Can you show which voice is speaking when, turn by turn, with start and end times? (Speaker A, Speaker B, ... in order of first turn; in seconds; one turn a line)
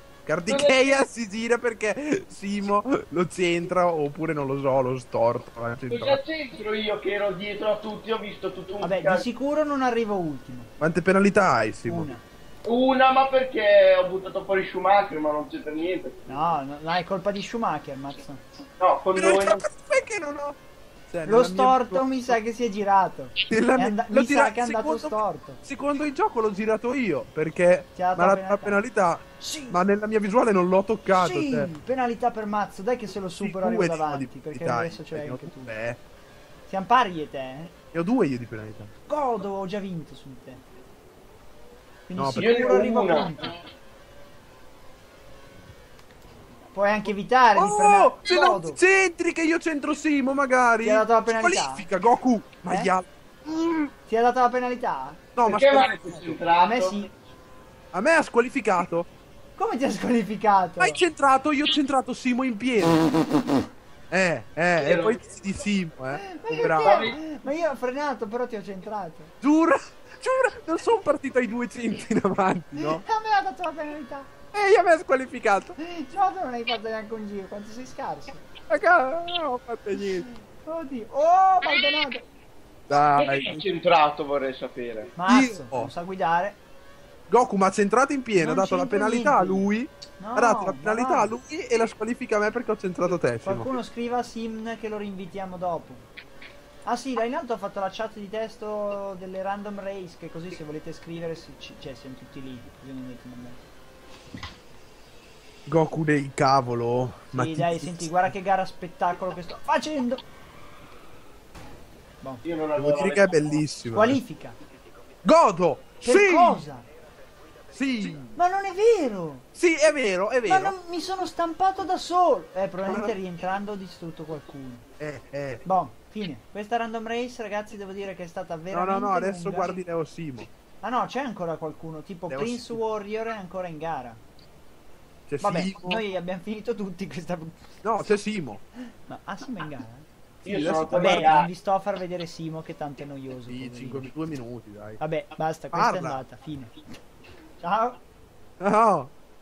Speaker A: 0.2-6.2
Speaker B: 0.5-1.0
Speaker B: 5.9-9.2
Speaker C: 8.8-10.7
Speaker A: 10.8-12.1
Speaker C: 11.8-12.2
Speaker B: 12.7-16.2
Speaker C: 16.3-18.4
Speaker B: 18.8-19.6
Speaker A: 19.1-20.6
Speaker A: 21.1-22.4
Speaker C: 21.2-25.6
Speaker A: 23.5-31.7
Speaker C: 27.9-28.8
Speaker C: 29.4-29.8
Speaker C: 31.1-35.7
Speaker A: 33.4-36.0
Speaker C: 36.7-37.8
Speaker A: 37.9-38.9
Speaker C: 39.1-40.6
Speaker C: 42.1-43.5
Speaker A: 42.2-42.5
Speaker B: 42.4-43.3
Speaker C: 46.7-48.8
Speaker A: 47.6-53.9
Speaker C: 50.8-51.9
Speaker C: 52.7-52.9
Speaker C: 54.1-55.2
Speaker A: 55.4-55.9
Speaker B: 55.5-57.0
Speaker C: 56.6-57.1
Speaker A: 57.9-59.1
Speaker C: 59.6-61.0
Speaker A: 60.8-63.2
Speaker A: 64.1-67.1
Speaker B: 64.8-65.2
Speaker C: 66.1-69.3
Speaker B: 66.8-67.2
Speaker A: 69.4-73.0
Speaker C: 72.8-74.3
Speaker A: 74.5-75.8
Speaker C: 75.8-78.4
Speaker A: 78.7-80.3
Speaker C: 80.0-82.2
Speaker A: 82.9-83.6
Speaker B: 83.2-85.1
Speaker C: 85.2-86.6
Speaker A: 85.2-85.9
Speaker A: 87.3-93.7
Speaker C: 88.3-91.3
Speaker C: 93.4-96.1
Speaker C: 96.8-103.6
Speaker A: 105.7-108.2
Speaker C: 107.3-110.2
Speaker B: 112.4-113.6
Speaker A: 112.8-114.2
Speaker C: 113.9-114.6
Speaker A: 115.2-116.7
Speaker C: 116.0-116.9
Speaker A: 117.7-118.3
Speaker C: 118.3-119.5
Speaker A: 119.5-120.8
Speaker C: 120.5-124.9
Speaker A: 122.8-123.1
Speaker A: 125.0-125.6
Speaker C: 125.6-129.8
Speaker A: 128.7-130.5
Speaker C: 130.8-134.2
Speaker A: 132.3-132.8
Speaker A: 135.3-136.0
Speaker C: 135.4-137.8
Speaker A: 137.8-138.6
Speaker C: 138.8-140.1
Speaker B: 140.4-141.5
Speaker A: 140.4-141.3
Speaker C: 140.9-144.1
Speaker A: 143.5-145.0
Speaker C: 145.0-146.7
Speaker A: 145.7-146.2
Speaker C: 147.6-148.0
Speaker A: 148.6-149.1